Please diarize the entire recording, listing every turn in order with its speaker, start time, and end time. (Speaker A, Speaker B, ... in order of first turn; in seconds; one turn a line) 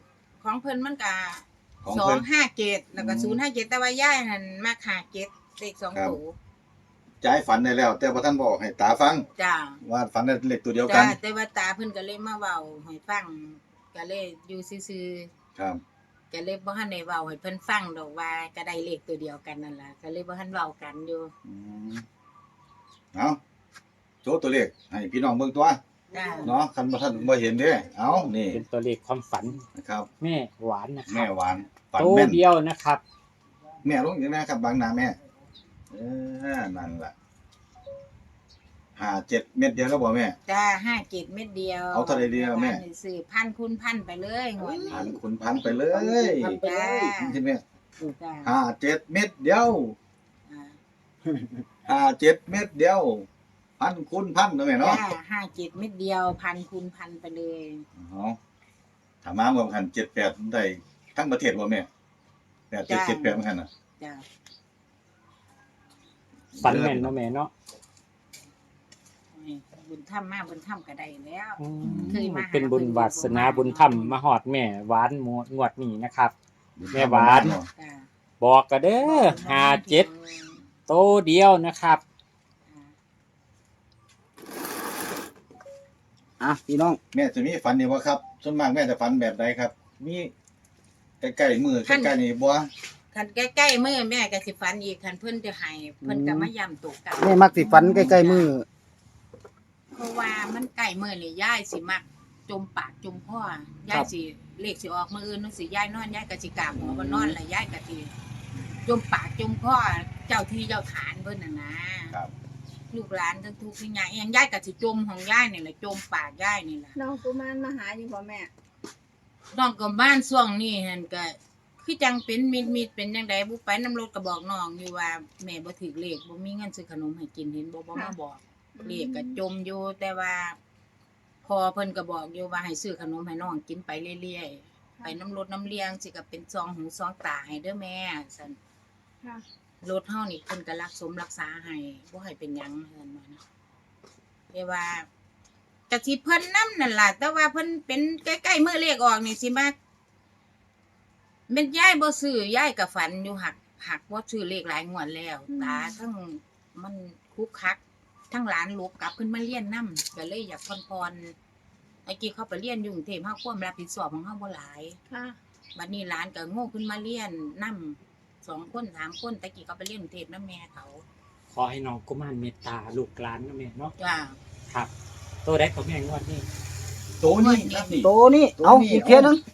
Speaker A: 0.4-6.3
Speaker B: 1.8-2.2
Speaker B: 3.0-3.4
Speaker B: 7.2-9.3
Speaker A: 9.4-9.8
Speaker B: 9.8-11.2
Speaker A: 10.8-15.3
Speaker B: 15.6-15.8
Speaker A: 16.3-21.3
Speaker B: 21.4-22.0
Speaker B: 23.1-23.4
Speaker B: 24.2-25.8
Speaker A: 26.1-26.5
Speaker B: 26.4-28.6
Speaker C: 28.5-29.6
Speaker B: 29.8-30.1
Speaker C: 30.2-31.3
Speaker B: 31.1-32.4
Speaker C: 31.9-33.0
Speaker B: 33.8-35.2
Speaker B: 35.9-37.1
Speaker B: 39.0-40.4
Speaker A: 40.5-45.1
Speaker B: 41.9-42.8
Speaker D: 44.6-47.2
Speaker B: 44.9-46.6
Speaker A: 46.6-47.4
Speaker B: 47.2-47.6
Speaker A: 48.0-48.5
Speaker B: 48.4-50.0
Speaker A: 50.5-50.8
Speaker B: 51.9-53.3
Speaker B: 53.8-55.0
Speaker A: 54.8-57.9
Speaker B: 58.0-58.4
Speaker B: 59.2-61.9
Speaker B: 62.7-63.7
Speaker A: 62.9-63.5
Speaker A: 64.0-64.2
Speaker B: 66.6-67.1
Speaker C: 66.6-67.5
Speaker A: 69.3-74.2
Speaker C: 71.6-76.3
Speaker B: 71.8-72.2
Speaker B: 76.8-77.7
Speaker C: 76.9-77.6
Speaker A: 77.7-78.1
Speaker C: 78.4-80.1
Speaker A: 79.0-80.6
Speaker C: 80.9-82.0
Speaker A: 82.7-82.9
Speaker D: 86.4-87.0
Speaker B: 87.1-90.3
Speaker B: 91.2-92.7
Speaker A: 91.9-92.2
Speaker A: 93.1-98.5
Speaker D: 96.0-96.5
Speaker D: 97.2-98.7
Speaker B: 97.6-98.1
Speaker A: 99.9-108.1
Speaker D: 106.8-107.4
Speaker A: 108.8-112.2
Speaker A: 112.9-117.0
Speaker E: 117.0-118.5
Speaker A: 119.5-130.6
Speaker E: 128.8-129.4
Speaker A: 131.4-138.6
Speaker A: 139.8-143.4
Speaker A: 144.5-145.1
Speaker A: 145.9-149.7
Speaker A: 151.5-157.8
Speaker E: 155.5-156.0
Speaker A: 158.3-161.3
Speaker A: 162.1-165.0
Speaker E: 165.1-165.4
Speaker A: 165.8-171.0
Speaker C: 171.5-173.9
Speaker A: 174.0-174.4
Speaker C: 175.4-176.5
Speaker B: 177.2-179.4
Speaker A: 177.4-178.0
Speaker D: 178.0-179.4